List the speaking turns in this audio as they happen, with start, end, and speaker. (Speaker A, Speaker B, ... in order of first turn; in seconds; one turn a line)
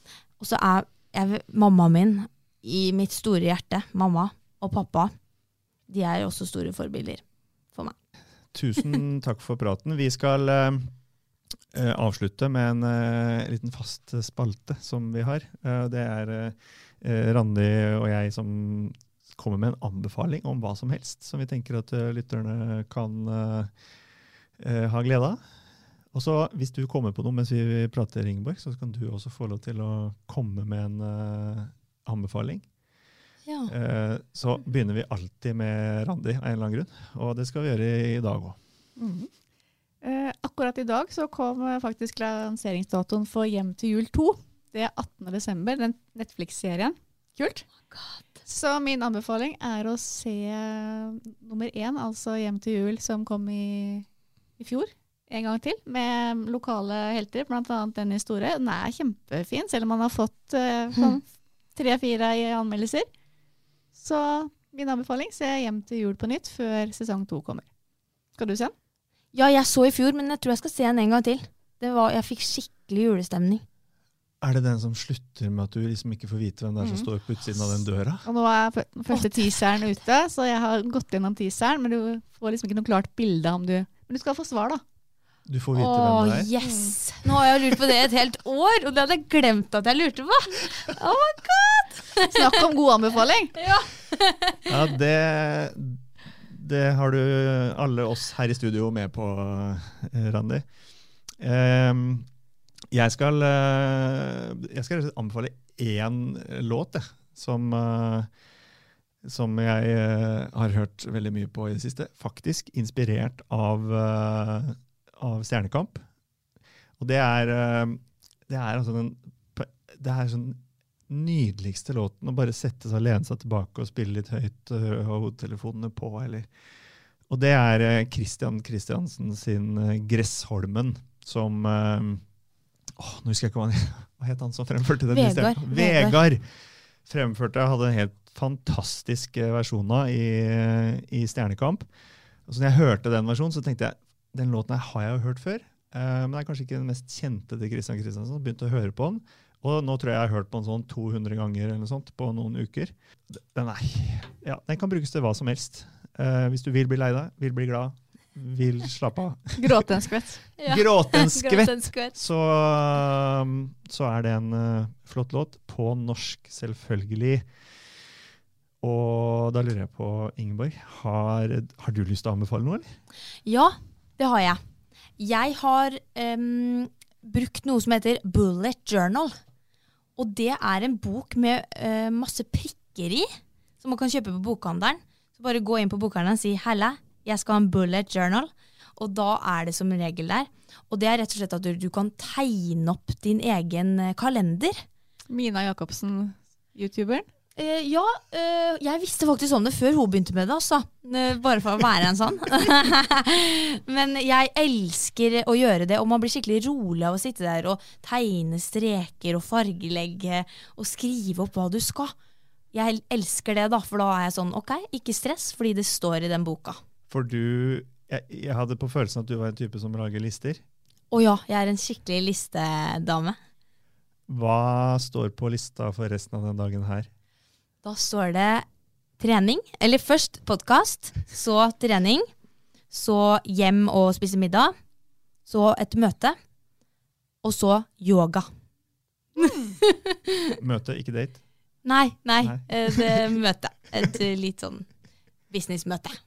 Speaker A: 0.4-5.1
Speaker A: 5.9-7.2
Speaker B: 8.5-10.9
Speaker B: 11.7-23.7
Speaker B: 24.6-25.4
Speaker B: 26.1-32.6
Speaker A: 33.5-33.7
Speaker B: 33.7-38.6
Speaker C: 39.0-39.3
Speaker C: 40.0-47.6
Speaker A: 47.9-48.2
Speaker C: 48.5-54.0
Speaker C: 54.6-63.1
Speaker C: 63.9-67.7
Speaker C: 68.4-68.7
Speaker A: 69.3-73.6
Speaker B: 74.4-78.2
Speaker C: 78.2-84.8
Speaker A: 79.1-79.4
Speaker B: 85.5-86.5
Speaker A: 85.8-92.3
Speaker C: 86.6-86.9
Speaker C: 92.3-93.6
Speaker A: 93.6-94.7
Speaker B: 94.7-100.7
Speaker B: 101.4-102.3
Speaker B: 102.9-108.3
Speaker B: 109.2-116.0
Speaker B: 117.0-126.5
Speaker B: 127.3-132.2
Speaker B: 132.9-136.4
Speaker A: 135.1-136.2
Speaker B: 137.1-141.9
Speaker B: 142.4-159.8
Speaker C: 159.6-160.4
Speaker A: 160.6-162.1
Speaker B: 160.6-167.4
Speaker B: 168.8-172.9
Speaker A: 173.4-174.6
Speaker A: 175.2-179.3
Speaker A: 180.2-183.3
Speaker A: 183.8-194.8
Speaker C: 195.3-197.3
Speaker A: 197.6-212.1
Speaker A: 212.7-216.8
Speaker B: 217.1-220.6
Speaker A: 221.1-223.4
Speaker B: 224.3-227.1
Speaker A: 227.8-228.7
Speaker A: 229.2-232.3
Speaker A: 232.9-234.7
Speaker A: 235.4-236.4
Speaker A: 237.4-238.5
Speaker A: 239.4-240.1
Speaker B: 240.6-241.4
Speaker A: 241.8-244.8
Speaker B: 242.4-243.3
Speaker A: 245.5-246.2